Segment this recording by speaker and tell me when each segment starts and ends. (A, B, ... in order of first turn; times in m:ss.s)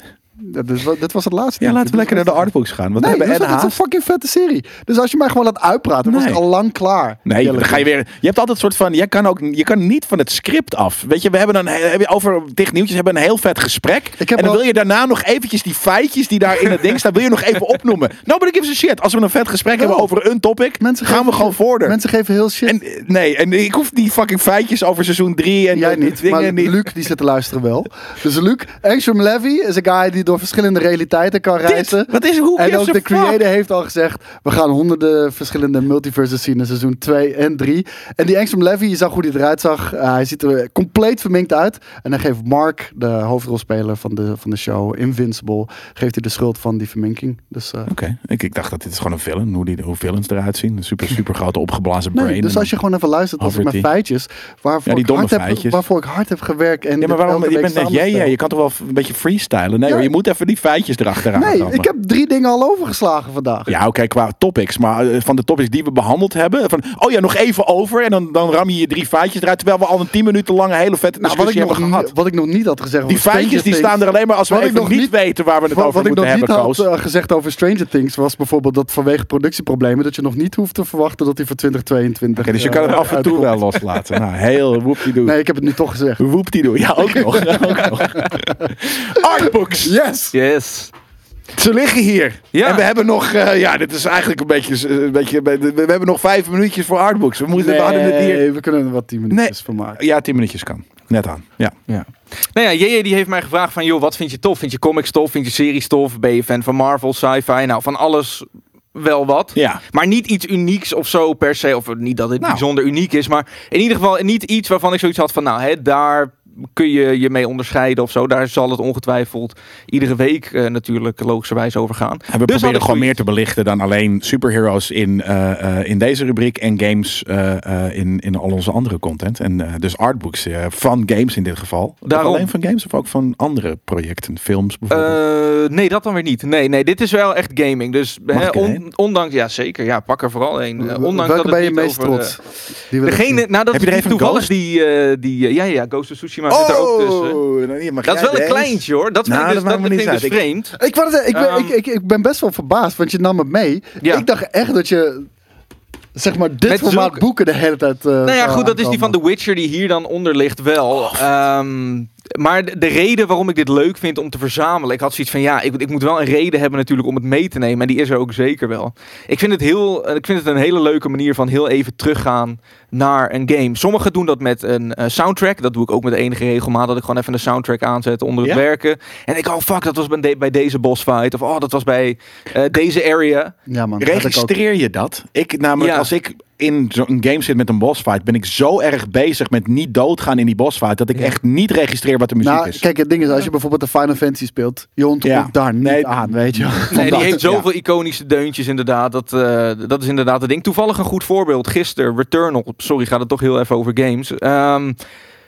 0:00.4-0:07.8 A
0:01.6-0:03.8 B
0:06.0-0:06.4 B
0:07.2-0:22.0 B
0:14.2-0:14.6 A
0:19.8-0:20.0 A
0:20.8-0:22.8 A
0:22.6-0:26.9 B
0:25.7-0:47.9 A
0:31.6-0:33.4 B
0:47.9-0:52.7 B
0:52.1-0:58.3 A
0:53.4-0:53.8 B
0:54.8-0:55.8 B
0:57.0-1:01.9 B
1:01.3-1:03.8 A
1:03.7-1:12.1 B
1:11.2-1:15.1 A
1:13.1-1:16.8 B
1:15.7-1:23.5 A
1:22.4-1:25.4 B
1:25.2-1:26.2 A
1:26.2-1:29.9 B
1:27.0-1:30.3 A
1:30.3-1:30.9 C
1:31.5-1:38.4 B
1:32.5-1:32.8 C
1:37.5-1:40.0 A
1:39.3-1:41.7 B
1:41.9-2:03.1 C
1:49.6-1:49.8 B
2:02.3-2:15.2 B
2:12.0-2:12.5 C
2:14.9-2:22.5 C
2:18.3-2:18.8 B
2:20.8-2:22.4 A
2:22.9-2:23.4 A
2:23.0-2:27.4 C
2:23.7-2:24.5 B
2:26.5-2:30.4 B
2:28.0-2:30.7 C
2:30.8-2:35.3 A
2:31.3-2:31.7 C
2:36.2-2:39.2 A
2:36.7-2:37.2 C
2:38.2-3:03.5 C
3:03.7-3:04.5 A
3:04.0-3:12.8 B
3:05.8-3:06.1 C
3:12.4-3:17.3 A
3:15.2-3:17.7 B
3:16.9-3:25.0 C